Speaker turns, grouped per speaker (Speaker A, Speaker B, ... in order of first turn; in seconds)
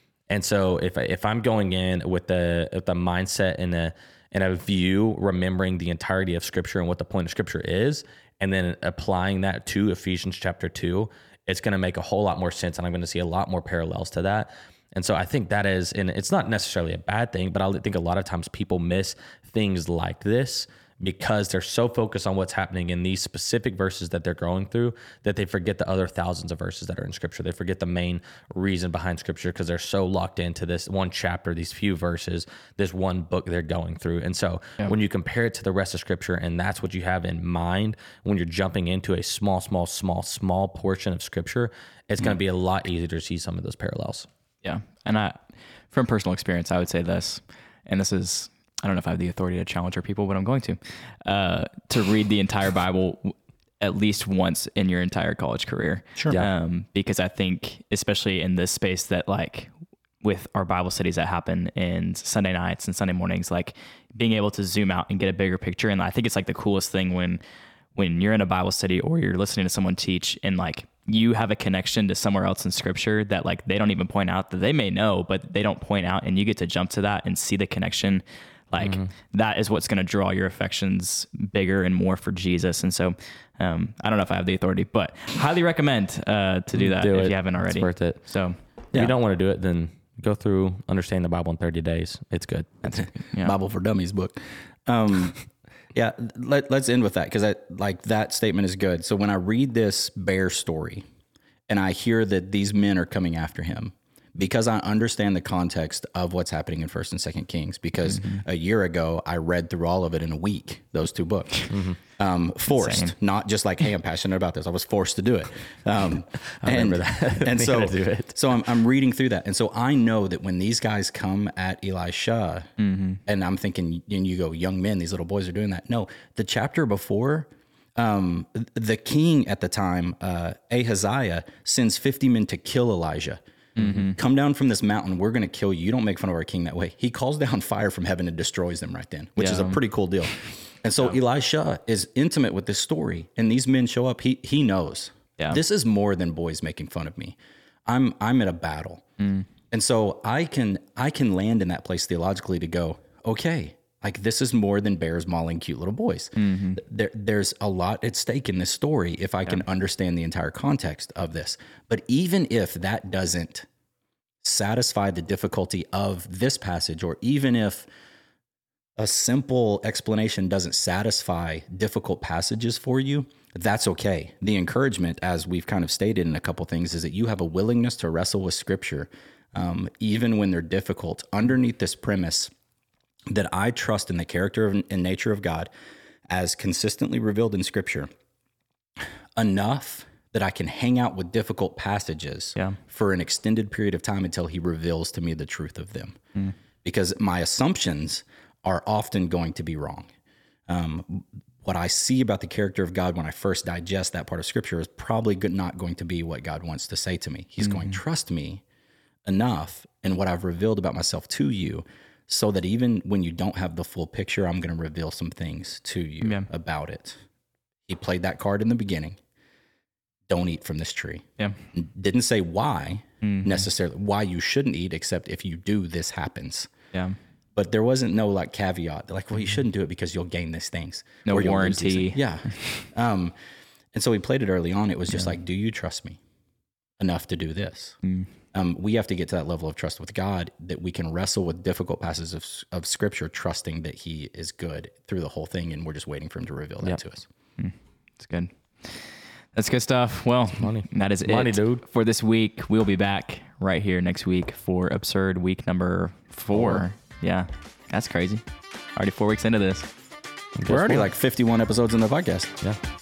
Speaker A: 0.3-44.3, 78.8-79.1, 86.7-88.2, 88.9-92.8, 111.7-112.0, 116.6-118.4, 250.6-251.8, 260.6-261.1
Speaker B: 44.6-45.4, 45.9-59.7, 60.2-67.4, 67.9-88.5, 92.9-93.5, 108.1-108.4, 112.7-113.1, 122.8-123.2, 133.8-134.2, 139.4-139.8, 149.2-149.4, 156.4-156.8, 207.6-208.0, 216.2-216.5, 223.2-223.7, 231.2-232.8, 238.0-238.3, 247.6-258.4, 258.9-259.9
Speaker C: 92.9-94.3, 94.8-95.4, 95.9-101.0, 101.7-122.7, 123.2-149.0, 149.7-163.7, 164.4-167.9, 169.0-182.5, 183.3-185.7, 186.3-188.1, 189.0-196.2, 196.8-200.1, 200.7-208.6, 209.2-217.2, 217.9-219.2, 220.3-226.7, 227.5-233.3, 233.9-236.2, 237.0-237.9, 238.5-247.3, 260.7-262.5